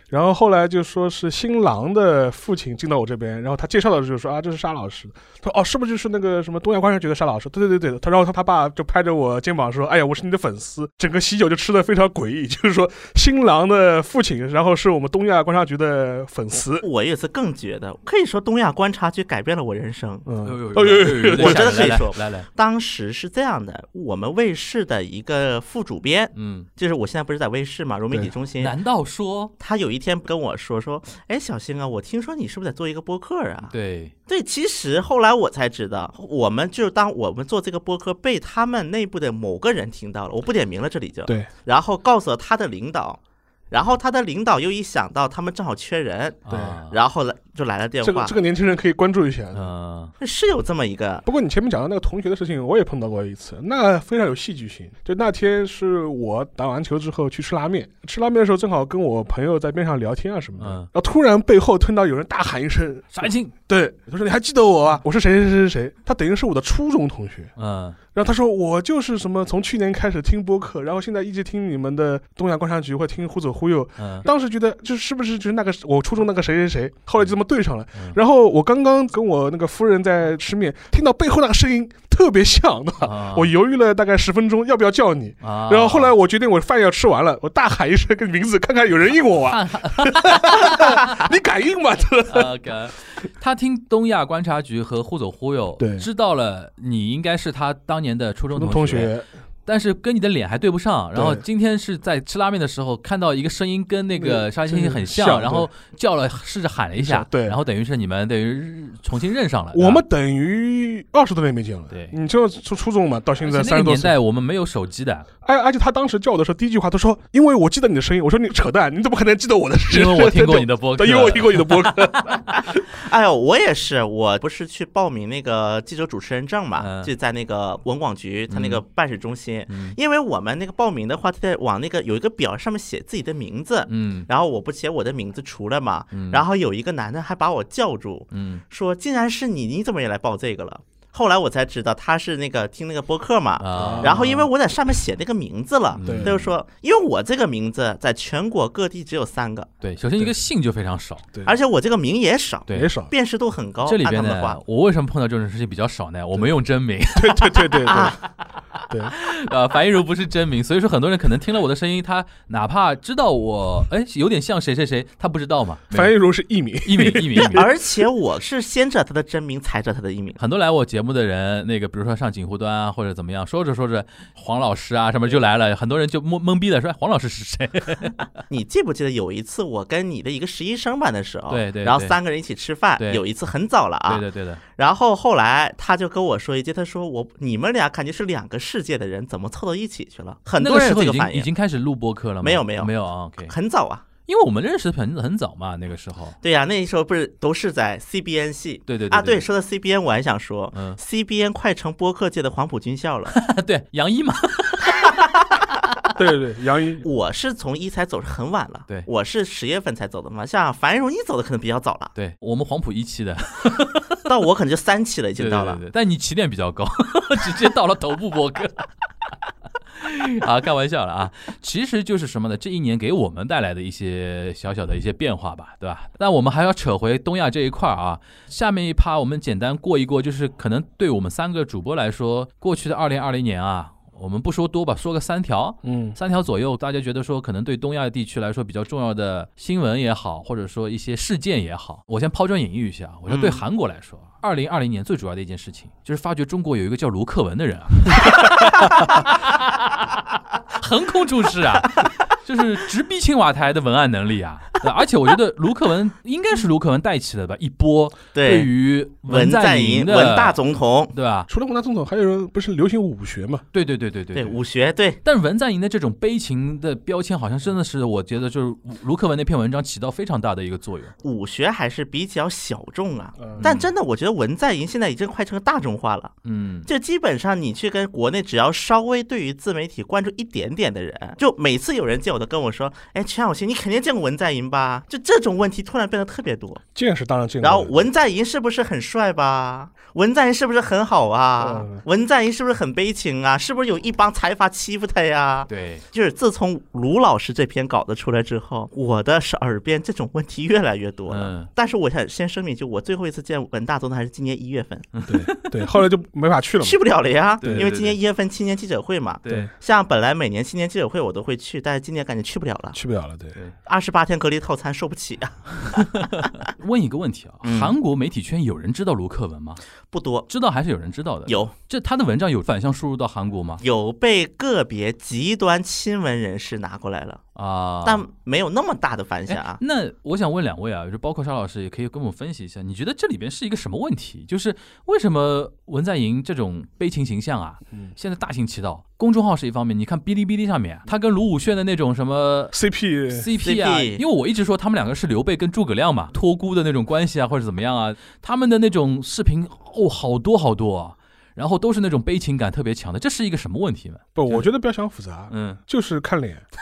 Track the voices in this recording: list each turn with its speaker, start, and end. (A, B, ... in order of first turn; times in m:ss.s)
0:00.1-0:16.8 A
0:16.8-0:20.2 B
0:20.2-0:22.0 A
0:20.4-0:22.5 C
0:21.4-0:28.7 B
0:26.3-0:26.7 C
0:28.6-0:29.5 C
0:29.6-0:33.7 B
0:33.7-0:34.1 C
0:34.3-0:43.2 B
0:43.7-0:48.3 B
0:46.5-0:47.0 C
0:46.5-0:46.8 A
0:48.0-0:49.7 A
0:49.5-0:50.1 C
0:50.2-0:51.2 B
0:51.2-1:07.5 A
1:00.6-1:00.9 C
1:03.1-1:03.5 C
1:07.6-1:08.0 C
1:08.1-1:32.5 A
1:14.0-1:14.3 C
1:23.0-1:23.5 C
1:25.4-1:26.1 C
1:29.4-1:31.2 C
1:32.3-1:39.1 C
1:35.8-1:36.1 A
1:38.5-1:39.3 A
1:39.6-1:50.0 C
1:41.1-1:41.4 A
1:44.1-1:45.7 A
1:47.0-1:47.6 A
1:49.7-1:54.1 A
1:53.4-1:55.3 C
1:55.4-2:02.8 A
1:59.9-2:02.1 C
2:02.5-2:29.7 B
2:06.8-2:07.1 C
2:08.5-2:08.8 C
2:09.7-2:10.0 C
2:13.9-2:14.3 C
2:16.1-2:16.4 C
2:18.3-2:18.6 C
2:23.6-2:24.4 C
2:23.7-2:24.5 A
2:25.9-2:26.5 C
2:26.0-2:26.4 A
2:29.8-2:31.3 C
2:31.4-2:34.6 B
2:32.7-2:32.9 C
2:32.7-2:33.1 A
2:33.8-2:38.0 C
2:37.1-2:38.2 A
2:37.8-2:38.2 B
2:38.9-2:39.1 A
2:39.1-2:46.1 C
2:45.9-2:47.7 A
2:46.8-2:47.7 C
2:47.5-2:50.4 B
2:50.4-2:58.2 C
2:58.5-3:04.2 B
3:01.5-3:02.2 C
3:04.1-3:04.6 C
3:04.8-3:11.5 B
3:10.6-3:13.5 C
3:12.4-3:14.0 B
3:14.2-3:16.4 C
3:16.4-3:23.4 B
3:18.9-3:19.4 C
3:20.7-3:21.0 C
3:23.3-3:25.1 C
3:24.8-3:25.7 B
3:26.2-3:27.0 A
3:27.0-3:32.1 B
3:32.1-3:34.2 C
3:34.2-3:35.8 B
3:35.4-3:38.9 C
3:39.9-4:10.2 C
3:55.8-3:56.2 A
4:03.3-4:03.6 B
4:08.4-4:09.1 B
4:10.7-4:20.6 C
4:18.3-4:18.7 B
4:19.2-4:21.1 B
4:21.1-4:21.5 C
4:21.5-4:23.6 A
4:23.7-4:24.6 C
4:24.3-4:25.2 B
4:25.2-4:31.1 C
4:31.2-4:36.3 B
4:33.4-4:33.8 A
4:33.6-4:33.9 C
4:36.4-4:36.9 C
4:36.9-4:46.8 B
4:46.9-4:48.0 A
4:47.6-5:05.1 B
4:51.6-4:52.0 A
4:55.7-4:56.0 C
5:01.3-5:01.7 C
5:05.1-5:05.9 C
5:05.3-5:07.0 A
5:06.8-5:13.0 B
5:07.6-5:08.2 C
5:07.6-5:07.9 A
5:09.4-5:09.7 C
5:12.9-5:13.6 A
5:13.9-5:16.5 B
5:16.0-5:19.8 C
5:17.6-5:17.9 B
5:20.1-5:20.5 B
5:20.5-5:23.8 C
5:21.5-5:21.7 B
5:23.8-5:27.4 B
5:27.6-5:28.2 C
5:28.0-5:29.8 B
5:29.5-5:42.8 C
5:42.7-5:43.5 A
5:43.3-5:54.6 C
5:43.6-5:44.2 B
5:54.4-5:56.6 A
5:55.5-5:55.8 C